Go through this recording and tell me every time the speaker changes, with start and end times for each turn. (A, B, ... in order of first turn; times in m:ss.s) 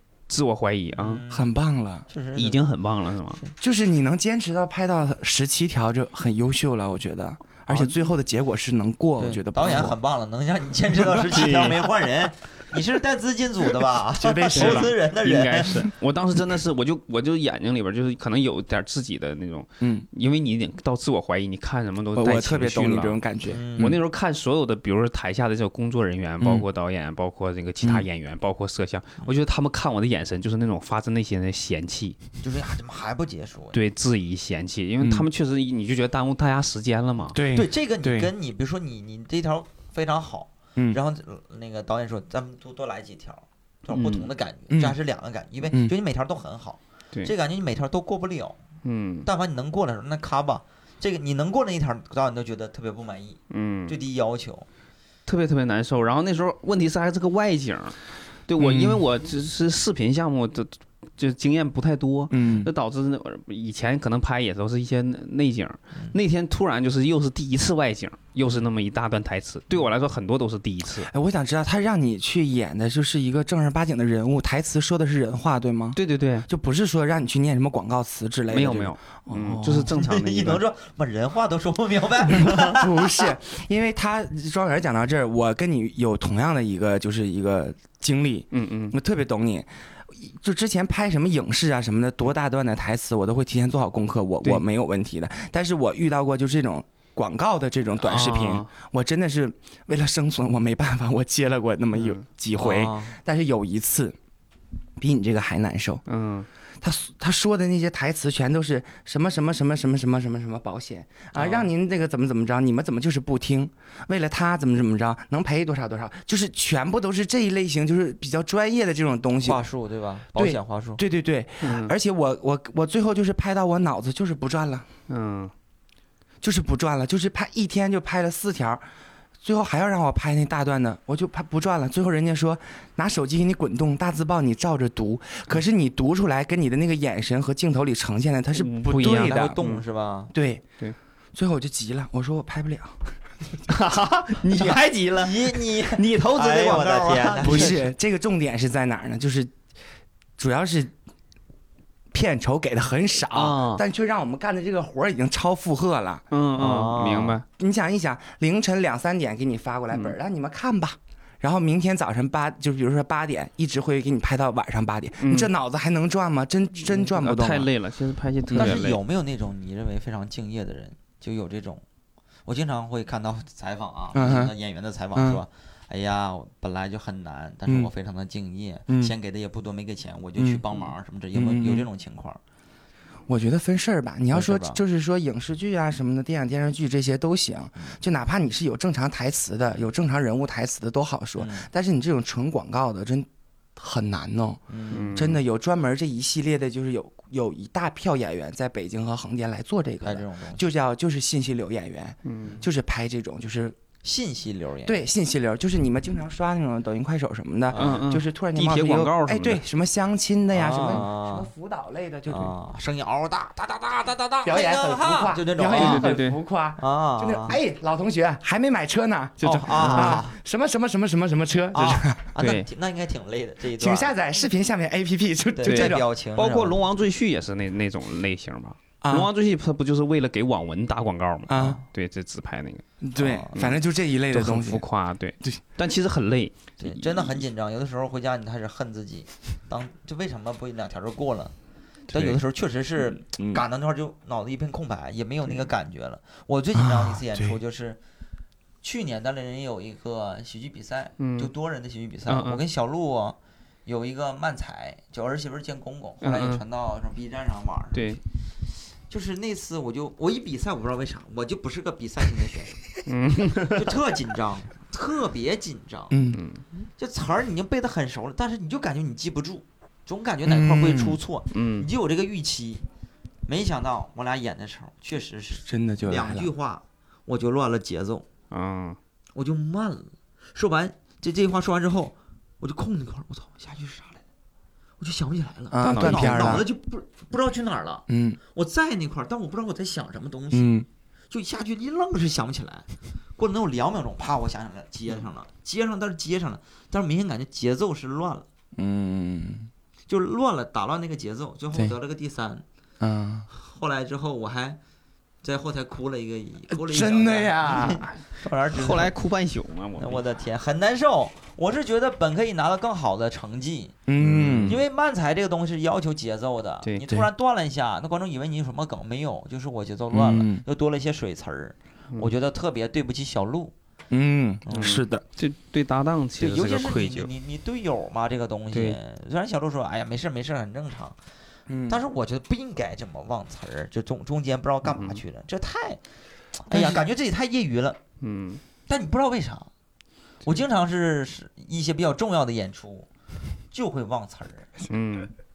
0:00.3-0:01.2 A
0:00.9-0:01.5 B
0:01.3-0:02.0 C
0:02.1-0:02.6 B
0:02.4-0:03.4 A
0:03.6-0:10.0 C
0:07.7-0:08.0 A
0:09.2-0:15.8 B
0:11.3-0:11.9 A
0:14.2-0:14.9 C
0:14.5-0:23.2 A
0:19.8-0:20.0 C
0:22.2-0:24.0 C
0:23.5-0:24.0 B
0:23.8-0:32.2 A
0:26.4-0:26.6 C
0:32.4-0:33.8 B
0:33.7-0:37.4 A
0:35.0-0:35.3 C
0:37.3-0:38.3 C
0:37.5-0:48.6 B
0:43.9-0:44.3 A
0:44.7-0:45.0 C
0:48.8-0:49.3 A
0:49.2-0:54.7 B
0:53.5-0:54.0 A
0:55.2-1:11.1 A
0:58.6-0:59.0 C
1:02.3-1:02.7 C
1:11.1-1:19.9 C
1:15.9-1:16.5 A
1:18.5-1:20.6 A
1:19.9-1:23.3 B
1:22.3-1:44.2 C
1:28.5-1:29.0 A
1:38.0-1:38.7 A
1:41.9-1:42.2 A
1:42.5-1:43.2 B
1:45.0-1:46.0 C
1:46.1-1:46.5 A
1:46.8-1:59.6 C
1:59.4-2:01.0 B
2:00.3-2:04.8 C
2:01.6-2:01.9 A
2:05.1-2:05.5 A
2:06.4-2:08.8 C
2:09.4-2:19.6 C
2:18.5-2:19.8 A
2:18.9-2:20.3 B
2:20.3-2:20.6 C
2:21.3-2:23.0 C
2:23.7-2:27.8 A
2:24.6-2:27.8 B
2:27.4-2:29.5 C
2:30.4-2:30.9 C
2:32.1-2:36.2 C
2:33.3-2:33.8 A
2:36.3-2:37.4 A
2:36.6-2:37.4 B
2:37.6-2:47.7 C
2:45.2-2:45.5 A
2:46.8-2:49.0 A
2:48.5-2:48.8 C
2:48.5-2:51.8 B
2:52.4-3:02.4 B
2:54.1-2:54.5 C
2:55.1-2:55.4 C
2:57.6-2:57.9 C
2:58.9-2:59.1 C
3:00.4-3:00.6 C
3:01.3-3:01.9 C
3:03.3-3:23.8 C
3:04.3-3:04.8 B
3:11.4-3:11.7 B
3:14.7-3:15.1 B
3:14.9-3:15.4 A
3:20.0-3:20.6 B
3:22.2-3:22.6 A
3:24.0-3:25.0 B
3:24.8-3:32.5 C
3:27.7-3:28.0 B
3:27.7-3:29.6 A
3:30.5-3:31.5 B
3:32.3-3:36.1 B
3:34.4-3:42.3 C
3:35.7-3:36.4 A
3:36.8-3:37.6 B
3:39.4-3:40.4 B
3:39.6-3:40.2 A
3:41.7-3:44.1 B
3:42.4-3:42.7 A
3:43.8-3:46.0 C
3:45.6-3:46.8 B
3:45.6-3:52.8 A
3:49.0-3:49.3 C
3:51.5-3:51.8 C
3:51.5-3:51.8 B
3:53.0-3:54.8 C
3:53.2-3:53.6 B
3:54.3-3:57.4 A
3:56.8-4:01.5 B
4:02.1-4:08.0 B
4:03.4-4:03.6 C
4:06.7-4:07.6 C
4:08.8-4:18.2 B
4:11.2-4:11.5 A
4:12.3-4:12.6 A
4:16.2-4:16.6 A
4:17.9-4:18.2 A
4:19.1-4:22.8 B
4:23.0-4:23.9 A
4:23.7-4:26.2 B
4:26.1-4:26.4 C
4:26.3-4:26.6 A
4:27.0-4:32.8 B
4:30.4-4:31.2 C
4:31.5-4:31.9 A
4:33.5-4:38.3 B
4:35.6-4:36.5 C
4:38.5-4:39.0 A
4:39.3-4:44.2 B
4:45.0-4:50.8 B
4:45.7-4:46.6 C
4:45.8-4:46.6 A
4:48.1-4:48.4 C
4:50.5-4:50.8 C
4:51.3-4:58.4 B
4:58.8-4:59.7 C
5:00.1-5:02.6 B
5:03.0-5:03.5 C
5:03.5-5:04.8 B
5:05.4-5:09.1 B
5:06.7-5:08.0 C
5:08.7-5:10.2 A
5:10.0-5:23.7 B
5:14.1-5:14.8 C
5:14.4-5:14.8 A
5:20.1-5:20.6 C
5:24.1-5:25.2 C
5:24.6-5:25.0 B
5:24.7-5:27.3 A
5:26.4-5:31.2 B
5:28.7-5:29.0 A
5:31.7-5:32.0 C
5:31.9-5:36.0 B
5:34.9-5:35.2 A
5:36.6-5:38.0 B
5:36.7-5:37.0 C
5:38.2-5:38.6 A
5:38.9-5:39.7 B
5:40.4-5:43.1 B
5:43.7-5:44.7 B
5:44.9-5:45.3 A